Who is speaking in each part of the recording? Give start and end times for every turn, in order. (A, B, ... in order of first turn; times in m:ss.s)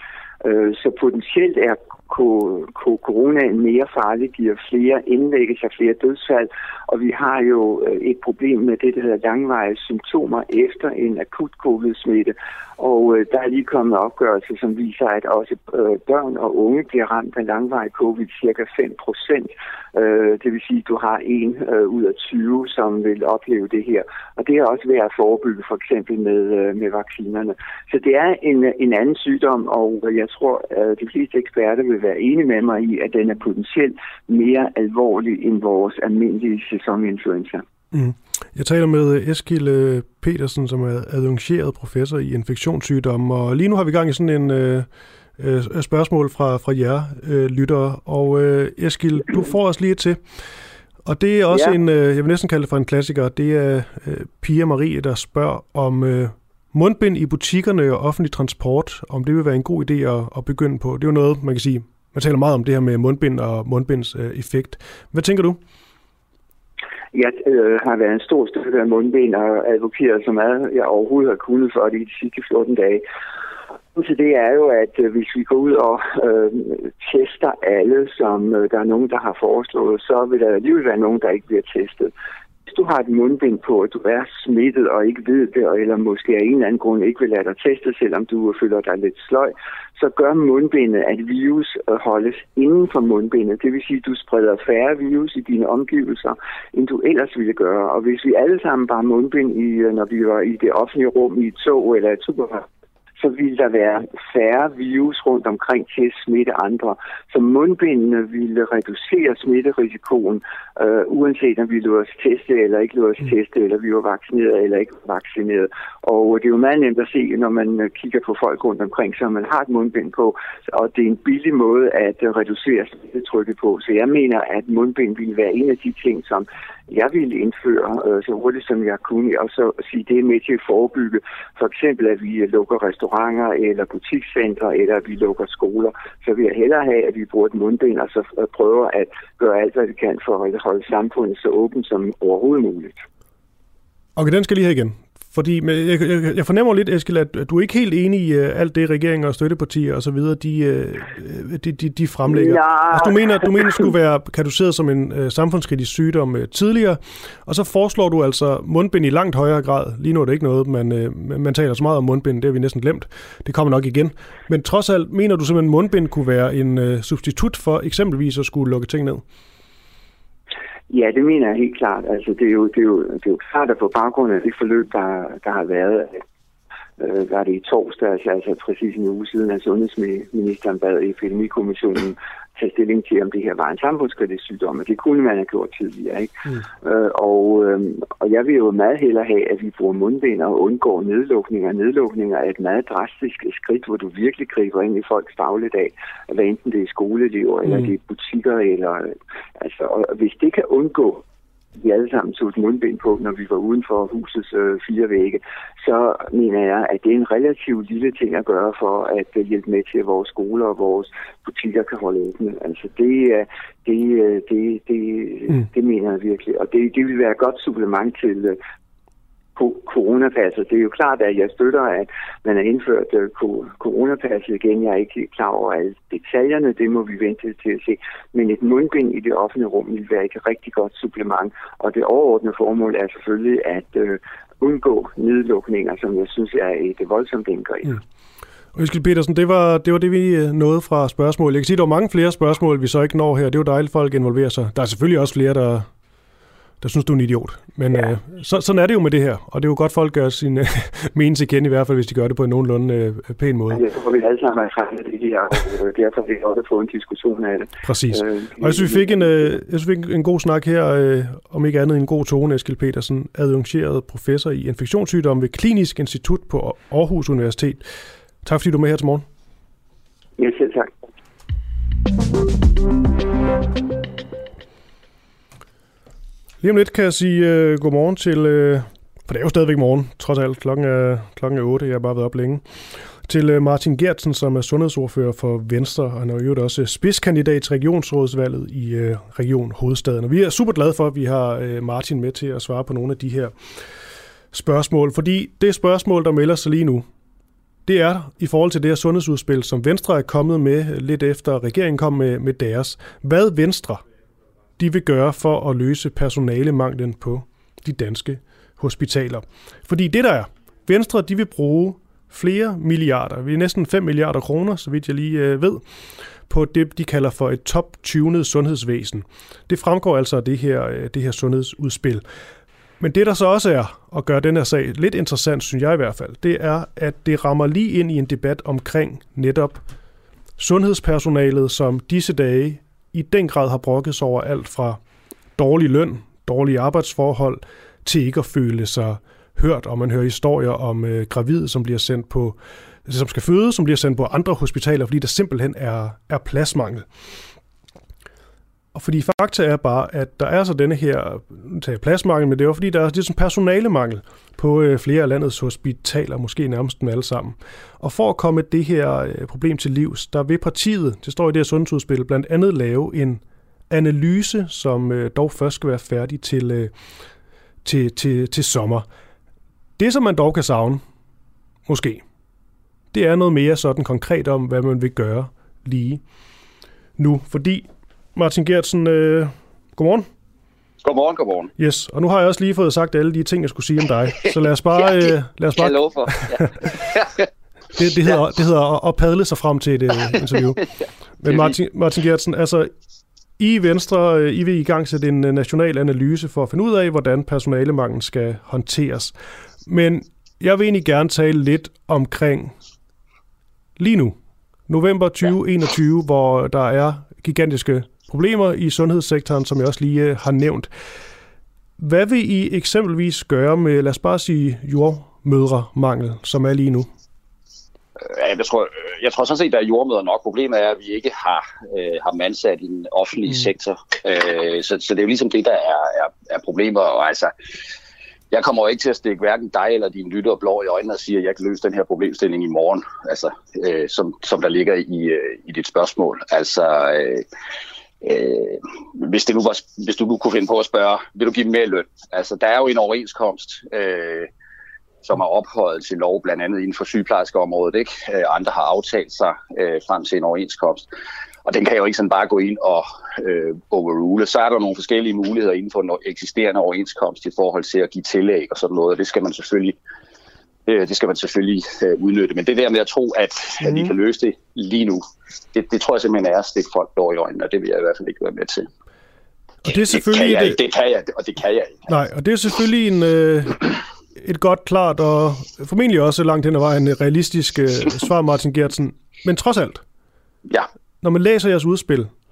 0:00.4-0:37.6 A
0:37.9-0:44.9 B
0:45.4-0:50.2 B
0:51.0-1:05.6 B
1:07.1-1:13.0 A
1:13.9-1:22.1 A
1:22.7-1:42.6 A
1:43.2-2:22.9 A
2:24.2-2:49.2 B
2:32.3-2:33.7 A
2:50.9-2:56.2 A
2:57.0-3:21.2 A
3:21.8-3:38.6 A
3:39.6-3:58.0 A
3:58.7-4:05.9 B
4:06.8-4:13.8 B
4:13.7-4:19.3 A
4:17.8-4:27.8 B
4:28.4-4:29.2 B
4:30.4-4:30.9 A
4:36.6-4:42.6 B
4:43.2-4:53.5 B
4:54.5-4:57.0 B
4:57.8-5:04.0 B
5:04.8-5:15.8 B
5:16.5-5:22.2 B
5:23.0-5:29.8 B
5:30.6-5:35.0 B
5:35.6-5:47.0 B
5:48.9-6:06.9 B
6:07.8-6:09.0 B
6:10.0-6:11.0 B
6:11.9-6:12.2 B
6:13.1-6:16.2 B
6:17.2-6:20.3 B
6:21.0-6:21.7 C
6:21.8-6:26.7 B
6:24.9-6:27.5 C
6:28.0-6:30.8 B
6:30.3-6:31.8 C
6:31.4-6:32.9 B
6:33.6-6:39.3 B
6:39.8-6:42.7 B
6:44.0-6:44.4 B
6:44.9-6:50.9 B
6:52.0-6:57.1 B
6:58.3-7:07.5 C
7:08.5-7:17.4 C
7:18.2-7:24.5 C
7:25.2-7:31.1 C
7:31.6-7:40.0 C
7:40.9-7:48.9 C
7:43.8-7:44.1 B
7:49.8-7:50.8 B
7:49.9-7:52.0 C
7:52.1-8:00.0 B
8:01.2-8:02.3 B